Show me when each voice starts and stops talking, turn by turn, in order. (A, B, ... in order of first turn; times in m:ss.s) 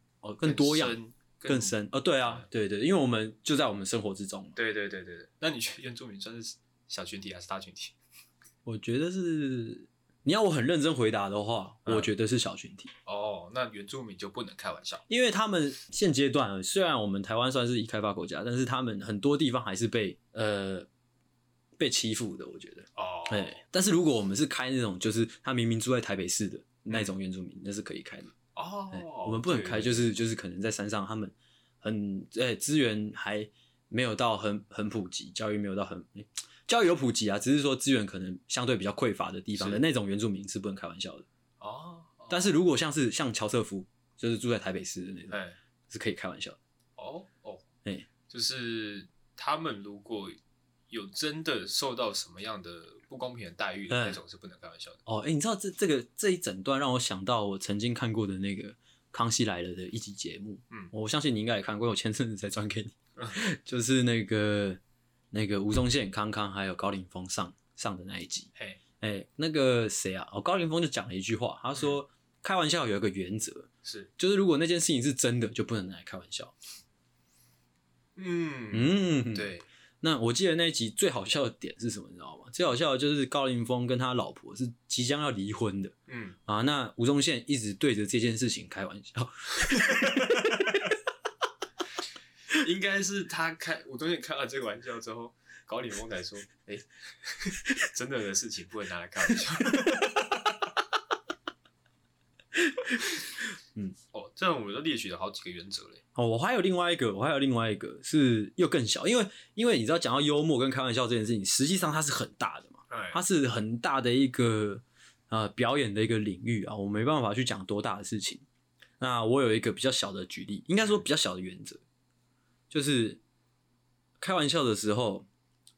0:00.2-0:01.0 A
0:00.4-0:02.5 B
0:01.5-0:04.6 A
0:04.6-0:08.0 B
0:08.6-0:12.9 A
0:11.8-0:12.1 B
0:13.1-0:15.0 B
0:15.1-0:20.9 A
0:21.8-0:28.3 A
0:23.0-0:23.6 B
0:28.6-0:30.1 B
0:28.9-0:41.2 A
0:39.6-0:39.8 B
0:41.6-0:42.6 B
0:42.3-0:45.4 A
0:45.3-0:45.6 B
0:45.9-0:46.6 A
0:47.0-0:47.6 B
0:48.3-0:50.4 B
0:50.9-0:55.0 B
0:53.9-0:54.2 A
0:55.1-1:04.8 A
1:05.3-1:08.5 A
1:08.6-1:08.8 B
1:09.0-1:16.5 A
1:13.8-1:14.1 B
1:18.2-1:19.7 B
1:18.7-1:25.9 A
1:26.1-1:26.4 B
1:26.5-1:30.6 A
1:29.6-1:30.8 B
1:32.5-1:40.6 B
1:42.7-1:43.0 A
1:44.1-1:46.0 B
1:46.2-1:58.4 A
1:52.9-1:53.2 B
1:59.0-2:01.8 A
2:02.7-2:03.2 A
2:04.2-2:05.3 A